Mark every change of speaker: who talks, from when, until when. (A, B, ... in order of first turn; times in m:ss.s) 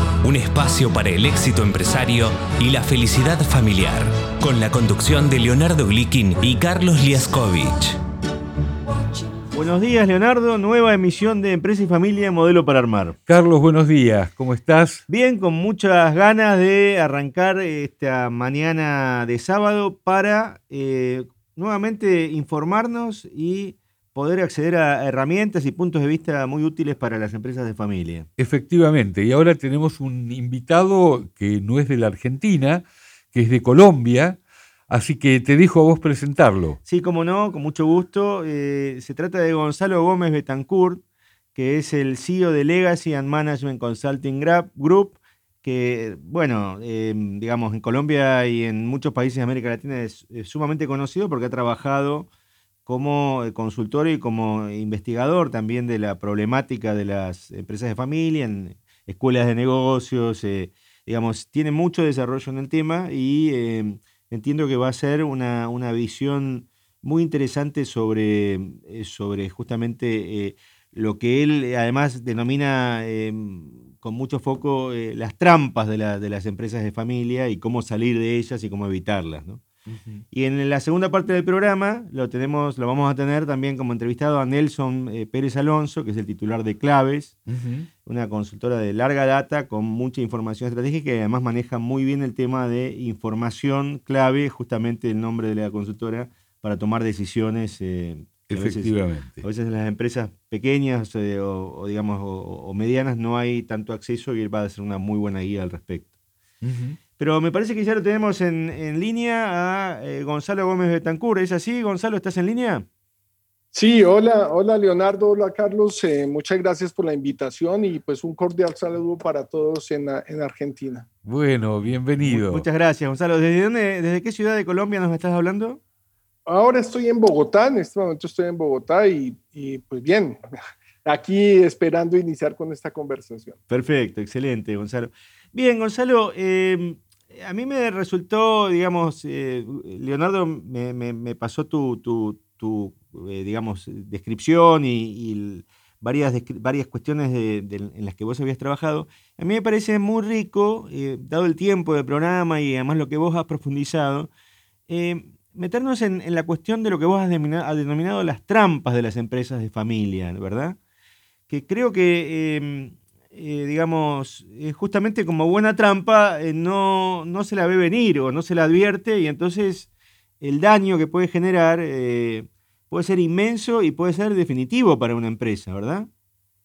0:00.2-0:08.0 A
0:09.5-0:13.2 B
0:13.3-0:15.0 C
0:15.1-0:28.3 B
0:28.4-0:36.8 C
0:36.8-0:41.0 B
0:41.5-0:52.3 B
0:52.8-1:19.6 B
1:19.9-1:20.2 C
1:20.3-1:27.4 B
1:27.5-1:27.9 C
1:28.0-1:46.1 B
1:38.5-1:39.4 C
1:46.6-1:47.0 C
1:47.2-1:52.8 B
1:53.7-2:01.1 D
2:01.2-2:02.6 C
2:02.2-2:05.8 B
2:06.5-2:10.4 D
2:11.0-2:13.6 D
2:13.7-2:34.3 B
2:34.9-2:40.8 B
2:41.5-2:49.9 B
2:50.4-2:56.1 B